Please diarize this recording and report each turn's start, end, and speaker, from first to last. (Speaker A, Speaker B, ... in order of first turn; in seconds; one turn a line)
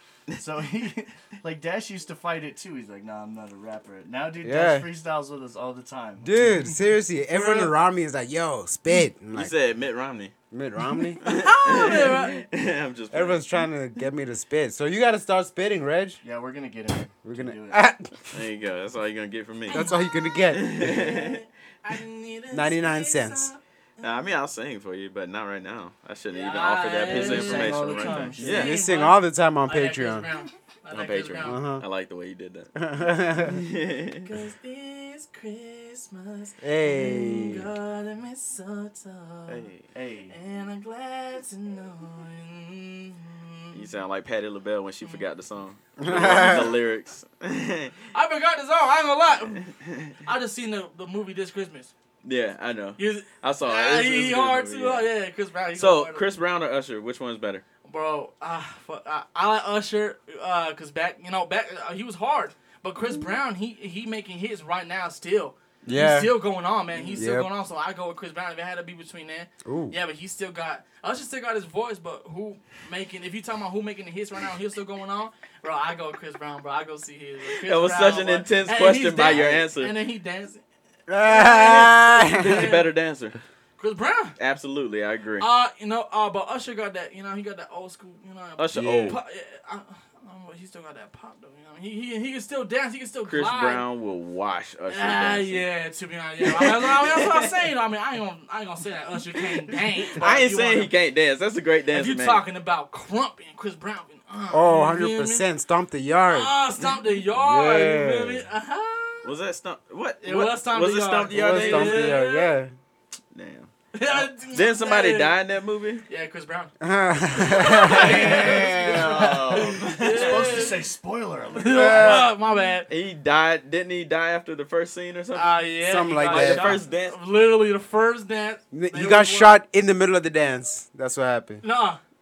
Speaker A: 0.3-6.8
Speaker B: 4.4-4.9
Speaker B: 6.2-9.5
Speaker C: 9.3-10.3
Speaker B: 10.5-11.2
Speaker D: 11.2-12.5
Speaker C: 11.2-13.5
Speaker B: 13.1-16.2
Speaker A: 16.2-17.8
Speaker B: 17.2-18.5
Speaker C: 18.3-19.9
Speaker D: 19.7-24.2
Speaker B: 19.7-21.0
Speaker C: 20.5-21.4
Speaker B: 22.5-23.5
Speaker C: 24.0-28.8
Speaker D: 26.3-31.6
Speaker A: 27.1-28.7
Speaker B: 28.4-30.3
Speaker C: 30.9-32.7
Speaker B: 31.4-31.9
Speaker B: 32.8-33.6
Speaker C: 33.4-34.3
Speaker D: 34.2-39.7
Speaker B: 36.6-37.7
Speaker C: 39.5-39.9
Speaker A: 39.9-40.4
Speaker D: 40.3-43.9
Speaker C: 43.7-48.0
Speaker B: 46.0-46.8
Speaker D: 46.2-46.7
Speaker D: 48.1-51.9
Speaker C: 49.7-50.2
Speaker C: 52.2-55.1
Speaker D: 53.0-56.3
Speaker C: 55.8-57.6
Speaker D: 57.8-80.6
Speaker B: 65.8-66.4
Speaker C: 66.9-67.2
Speaker B: 67.2-67.5
Speaker B: 69.7-70.0
Speaker C: 77.6-79.9
Speaker B: 81.1-82.8
Speaker D: 81.2-82.9
Speaker C: 82.4-83.4
Speaker D: 83.8-84.4
Speaker C: 84.4-85.5
Speaker D: 85.4-93.8
Speaker C: 88.6-89.2
Speaker B: 88.7-89.2
Speaker C: 93.3-95.7
Speaker D: 94.9-100.9
Speaker C: 96.4-97.5
Speaker C: 99.4-102.4
Speaker D: 101.9-105.5
Speaker B: 104.5-106.5
Speaker D: 106.3-109.4
Speaker B: 107.3-108.4
Speaker C: 109.2-112.2
Speaker D: 110.2-112.6
Speaker B: 111.3-112.7
Speaker C: 113.3-116.0
Speaker D: 113.9-115.4
Speaker D: 116.1-116.8
Speaker B: 116.8-119.2
Speaker D: 117.3-120.8
Speaker A: 118.0-121.9
Speaker C: 118.1-120.8
Speaker D: 121.5-122.9
Speaker B: 121.6-122.3
Speaker C: 122.0-122.3
Speaker C: 122.9-125.6
Speaker D: 125.3-129.6
Speaker B: 125.8-126.8
Speaker C: 126.2-127.2
Speaker B: 128.7-131.6
Speaker D: 131.6-132.0